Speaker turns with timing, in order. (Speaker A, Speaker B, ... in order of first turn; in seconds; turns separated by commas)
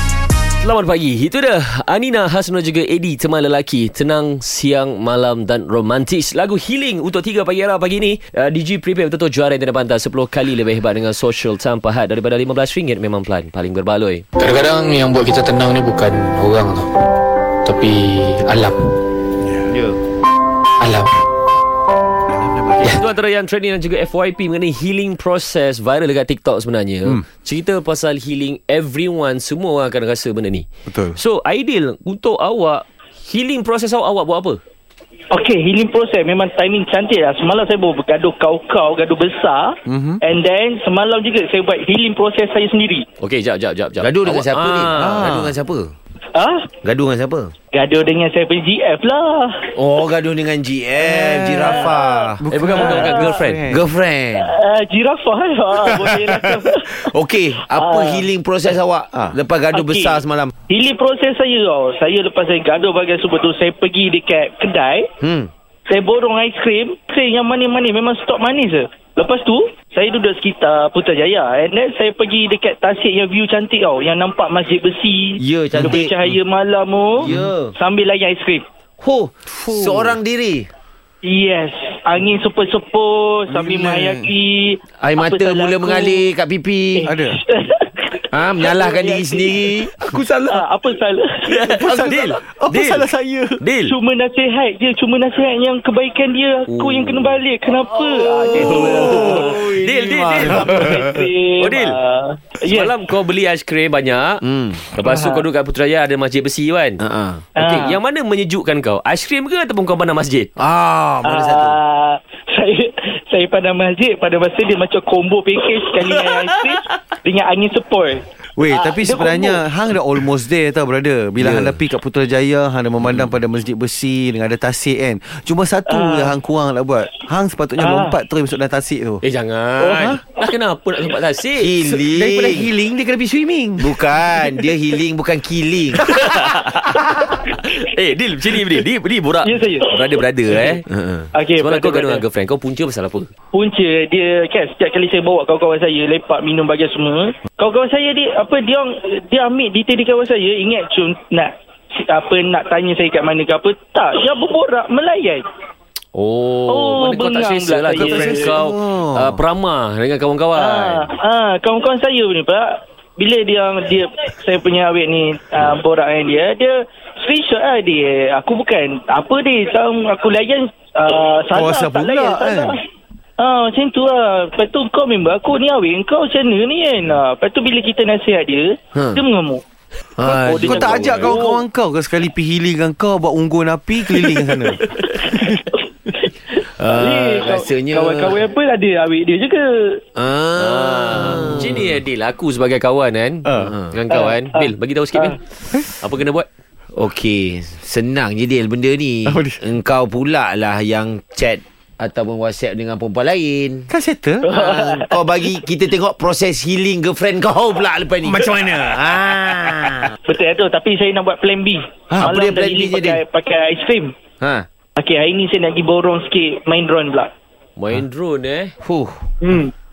Speaker A: 0.6-14.3, Speaker B: 14.4-16.9, Speaker B: 17.6-18.9, Speaker C: 19.4-19.7, Speaker D: 19.7-20.0, Speaker B: 20.8-21.1, Speaker C: 22.3-23.0, Speaker A: 22.8-34.6, Speaker C: 30.9-31.2, Speaker E: 35.3-43.0, Speaker C: 39.9-40.2, Speaker A: 43.2-45.3, Speaker D: 44.0-45.9, Speaker C: 45.0-45.6, Speaker E: 46.3-46.8, Speaker D: 46.8-47.5, Speaker E: 47.7-49.7, Speaker D: 49.7-52.5, Speaker C: 51.0-53.8, Speaker E: 51.6-53.3, Speaker A: 52.5-53.6, Speaker D: 53.7-54.6, Speaker E: 54.3-58.3, Speaker C: 55.8-56.6, Speaker D: 56.8-60.5, Speaker E: 59.7-65.1, Speaker D: 65.2-65.5, Speaker E: 65.9-75.4, Speaker D: 75.4-76.3, Speaker C: 75.7-76.4, Speaker E: 76.0-78.6, Speaker C: 77.2-77.5, Speaker D: 77.3-77.7, Speaker D: 79.0-80.7, Speaker C: 79.6-80.2, Speaker E: 81.2-86.3, Speaker C: 83.5-84.3, Speaker D: 85.0-87.1, Speaker E: 87.0-89.9, Speaker C: 87.0-87.4, Speaker D: 88.3-90.6, Speaker E: 90.4-91.5, Speaker A: 91.4-93.1, Speaker C: 91.6-93.6, Speaker A: 93.6-93.9, Speaker E: 93.9-102.9, Speaker A: 96.7-97.4, Speaker D: 98.1-98.7, Speaker C: 98.5-99.4, Speaker A: 98.6-101.1, Speaker D: 99.3-100.3, Speaker C: 100.3-101.3, Speaker A: 101.6-102.0, Speaker A: 102.6-107.0, Speaker D: 104.5-104.8, Speaker E: 105.1-105.4, Speaker D: 107.0-107.5, Speaker A: 107.5-110.5, Speaker E: 107.5-108.0, Speaker D: 110.6-111.8, Speaker E: 111.2-119.6, Speaker A: 116.0-116.7, Speaker C: 118.5-129.2, Speaker D: 121.4-121.8, Speaker E: 125.9-126.4, Speaker E: 127.8-128.2, Speaker A: 129.2-132.0, Speaker C: 129.8-130.2, Speaker D: 131.6-132.7, Speaker C: 131.8-134.6, Speaker D: 133.8-136.1, Speaker A: 136.0-140.8, Speaker E: 139.4-139.9, Speaker D: 140.9-141.3, Speaker E: 141.3-142.2, Speaker A: 141.6-143.3, Speaker E: 143.5-155.4, Speaker A: 156.1-161.1, Speaker E: 156.7-158.6, Speaker C: 157.9-159.4, Speaker E: 160.5-172.8, Speaker C: 171.5-172.8, Speaker E: 173.4-179.6, Speaker D: 178.9-179.2, Speaker D: 180.2-181.1, Speaker C: 180.2-185.7, Speaker E: 180.5-181.6, Speaker A: 180.9-181.3, Speaker E: 184.9-190.0, Speaker D: 186.8-188.5, Speaker D: 190.2-191.9, Speaker A: 190.5-196.5, Speaker C: 193.5-193.7, Speaker D: 193.6-194.0, Speaker E: 194.3-195.3, Speaker D: 196.9-203.9, Speaker C: 199.2-199.6, Speaker C: 203.9-204.4, Speaker E: 204.4-205.2, Speaker D: 204.5-210.1, Speaker C: 208.2-209.1, Speaker E: 210.2-214.1, Speaker C: 212.1-212.3, Speaker D: 212.3-213.2, Speaker D: 214.4-214.7, Speaker E: 214.9-217.3, Speaker A: 217.8-218.7, Speaker D: 218.8-219.2, Speaker E: 219.4-219.7